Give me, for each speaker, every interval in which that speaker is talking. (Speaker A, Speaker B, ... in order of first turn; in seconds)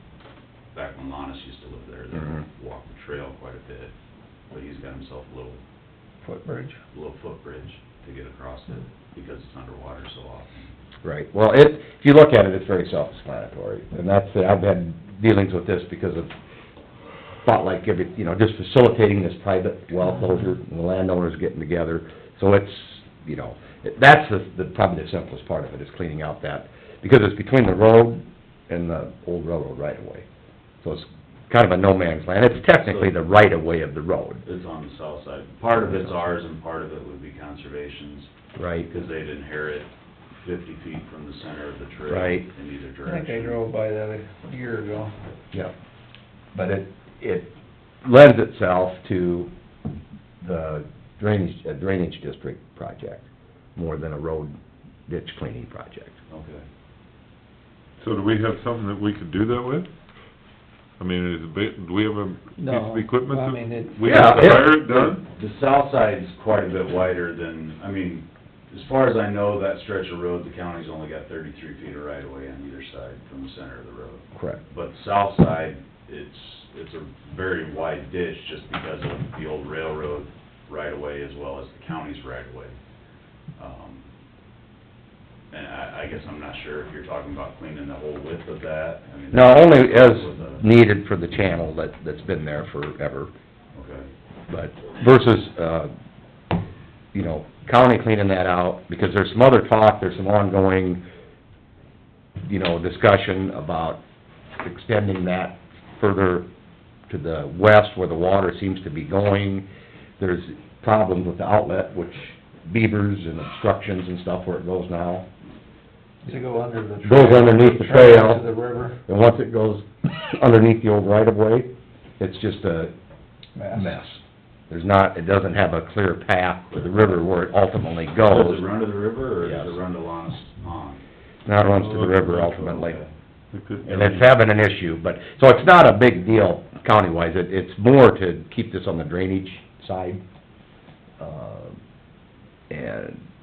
Speaker A: 0.7-3.9, 4.5-5.6, 6.9-10.8, 32.8-33.2, 34.5-38.3, 38.9-43.6, 56.3-56.6, 64.5-82.8, 83.6-84.1, 85.5-90.6, 93.7-94.1, 126.7-127.2, 128.2-131.0, 132.4-133.1
Speaker B: 6.2-6.8, 43.0-45.1, 62.6-64.1, 116.2-119.0, 123.5-124.0
Speaker C: 11.0-16.3, 17.4-30.3, 30.8-34.4, 38.6-38.9, 42.1-42.5, 46.5-47.5, 48.0-49.5, 50.4-54.5, 55.1-56.2, 64.0-64.8, 74.3-74.6, 89.3-93.3, 94.5-95.9, 97.1-101.0, 102.5-104.0, 104.6-106.5, 107.1-109.7, 110.2-115.3, 117.0-118.5, 119.1-122.9, 123.7-128.7, 129.4-129.7, 131.5-133.0, 133.8-140.2, 141.2-141.7, 142.7-143.2
Speaker D: 58.0-59.9, 61.0-65.2, 131.6-132.6, 133.5-134.3